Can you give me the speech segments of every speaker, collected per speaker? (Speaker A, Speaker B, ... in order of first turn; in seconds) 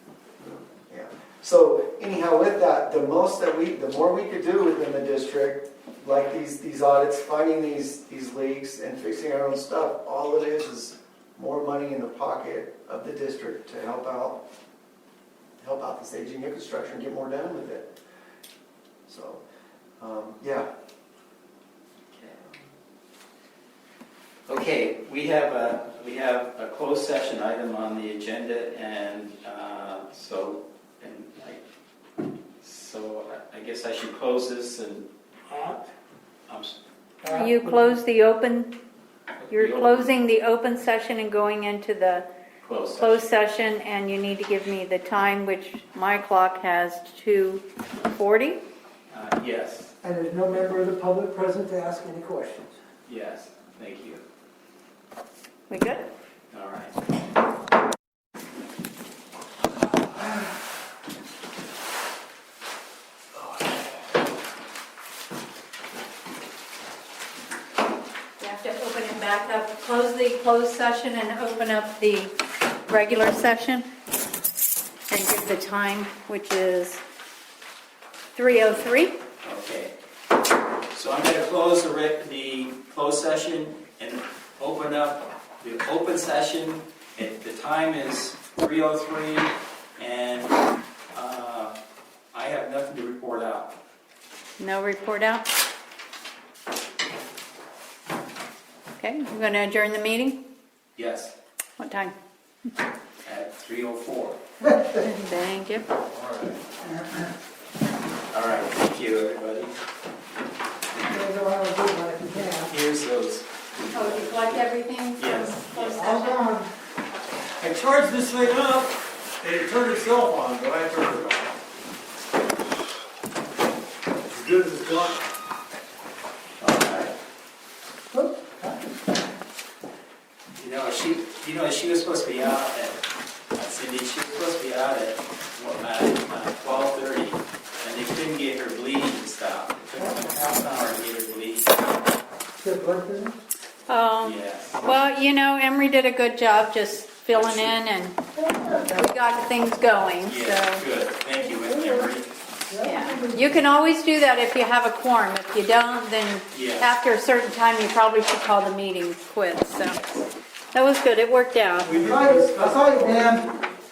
Speaker A: 0.4-14.4, 15.6-17.9, 19.1-19.4, 20.0-20.7
Speaker B: 24.5-31.6, 32.6-35.1, 36.5-36.8, 39.4-40.1, 42.6-43.2, 49.1-49.9, 53.1-54.2, 56.5-57.0, 79.4-79.9, 80.9-90.6, 91.1-91.8, 92.3-93.8, 101.0-101.3, 103.2-104.4, 108.3-109.7, 112.7-114.6, 115.2-115.9, 126.6-127.2, 130.6-133.0, 133.5-141.8, 144.2-144.8, 147.3-147.8, 150.2-152.3, 156.5-156.9
Speaker C: 35.5-35.8, 37.2-37.9, 50.0-52.7, 111.0-112.8, 116.0-116.7, 128.1-128.8, 140.0-140.3, 142.6-143.4, 148.4-149.1, 151.5-152.1, 152.7-153.6, 161.9-163.5
Speaker D: 37.3-38.7, 39.5-42.3, 43.0-48.6, 55.7-56.1, 68.4-72.3, 72.8-73.9, 75.1-77.0, 78.3-79.2, 94.6-95.5, 99.0-100.4, 101.8-102.2, 104.9-105.9, 113.9-116.4, 143.9-148.2, 148.9-150.8, 152.8-162.1
Speaker E: 117.6-121.5, 124.3-125.2, 161.8-163.7